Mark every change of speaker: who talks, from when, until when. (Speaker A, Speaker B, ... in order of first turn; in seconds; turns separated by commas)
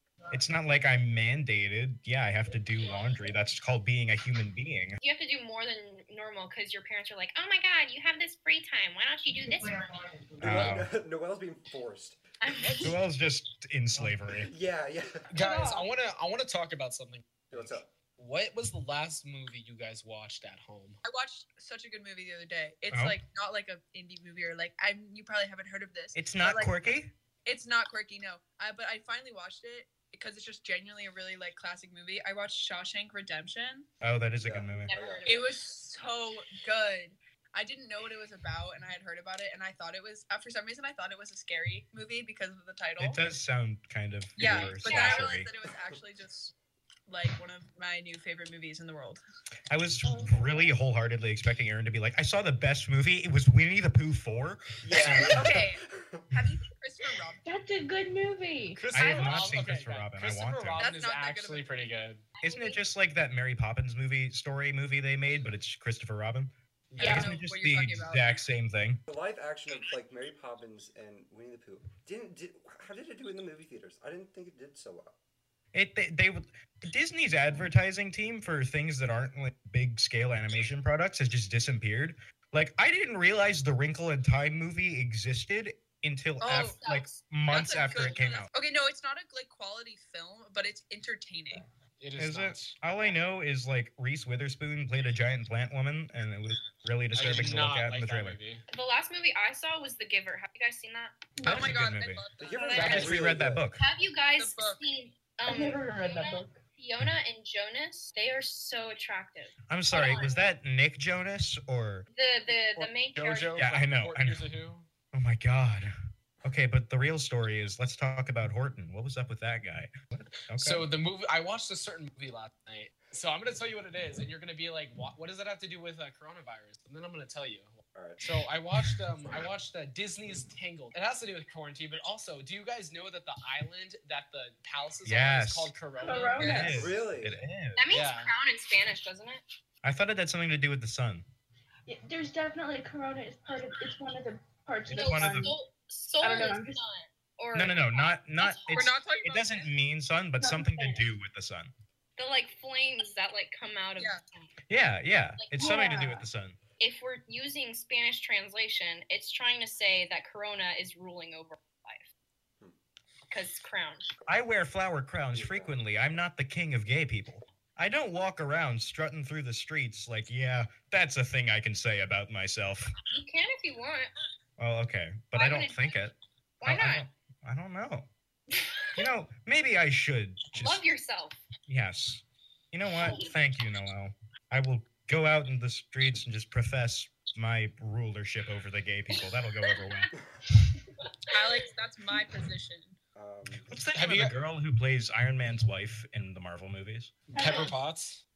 Speaker A: 0.3-5.0, Speaker B: 5.0-10.0, Speaker A: 10.4-10.9, Speaker C: 10.4-12.2, Speaker D: 10.4-10.8, Speaker B: 12.4-12.8, Speaker D: 12.7-12.9, Speaker A: 12.8-14.5, Speaker C: 14.3-15.3, Speaker D: 15.3-21.0, Speaker E: 15.4-15.9, Speaker C: 17.5-17.9, Speaker F: 21.0-33.9, Speaker A: 22.9-23.2, Speaker A: 26.1-27.1, Speaker A: 34.0-35.0, Speaker C: 34.4-35.4, Speaker B: 34.9-35.5, Speaker F: 35.2-43.2, Speaker A: 43.0-45.5, Speaker F: 44.4-46.5, Speaker B: 44.8-45.2, Speaker F: 47.1-49.2, Speaker A: 49.7-55.7, Speaker E: 50.0-50.8, Speaker C: 54.8-56.3, Speaker F: 55.1-57.4, Speaker E: 57.4-58.9, Speaker D: 58.8-62.2, Speaker A: 58.9-60.9, Speaker B: 58.9-59.6, Speaker F: 60.8-61.9, Speaker B: 62.4-62.8, Speaker A: 62.4-69.0, Speaker D: 66.9-67.2, Speaker F: 67.0-68.4, Speaker E: 67.0-67.3, Speaker C: 69.1-75.2, Speaker A: 75.7-88.5, Speaker F: 86.4-91.7, Speaker D: 92.0-92.8, Speaker A: 92.2-98.4, Speaker D: 97.1-98.6, Speaker B: 98.7-101.2, Speaker E: 101.4-101.7, Speaker A: 101.4-102.2, Speaker F: 101.4-103.1, Speaker C: 102.4-103.6, Speaker B: 102.6-103.1, Speaker D: 102.7-103.3, Speaker A: 102.8-103.8, Speaker B: 103.8-110.5, Speaker F: 104.4-104.8, Speaker E: 105.5-106.6, Speaker A: 109.7-112.1, Speaker B: 112.1-113.6, Speaker D: 112.7-114.9, Speaker A: 113.6-114.5, Speaker A: 115.1-115.9, Speaker A: 116.4-119.9, Speaker A: 120.5-120.9, Speaker D: 120.5-136.8, Speaker C: 127.9-128.4, Speaker A: 135.1-135.8, Speaker E: 135.9-136.9, Speaker F: 136.4-136.7, Speaker A: 136.4-137.8, Speaker C: 136.7-137.4, Speaker B: 137.8-139.4, Speaker D: 137.9-138.3, Speaker A: 139.8-141.2, Speaker E: 141.9-145.6, Speaker A: 144.9-145.6, Speaker B: 144.9-148.9, Speaker E: 146.2-146.8, Speaker A: 147.5-151.7, Speaker F: 148.7-149.7, Speaker E: 150.4-151.1, Speaker B: 152.2-154.5, Speaker A: 154.7-156.6, Speaker B: 155.4-155.8, Speaker E: 155.6-156.3, Speaker B: 156.8-162.1, Speaker B: 163.3-164.0, Speaker A: 164.3-172.9, Speaker C: 165.3-165.8, Speaker B: 173.1-174.1, Speaker A: 174.6-178.1, Speaker B: 175.3-176.0, Speaker B: 176.6-177.1, Speaker A: 179.0-180.8, Speaker B: 180.6-181.4, Speaker A: 181.7-190.1, Speaker B: 183.0-183.3, Speaker B: 191.1-191.4, Speaker F: 191.3-193.0, Speaker C: 193.2-193.7, Speaker A: 193.7-197.2, Speaker D: 193.9-194.3, Speaker E: 197.3-197.8, Speaker D: 197.3-198.2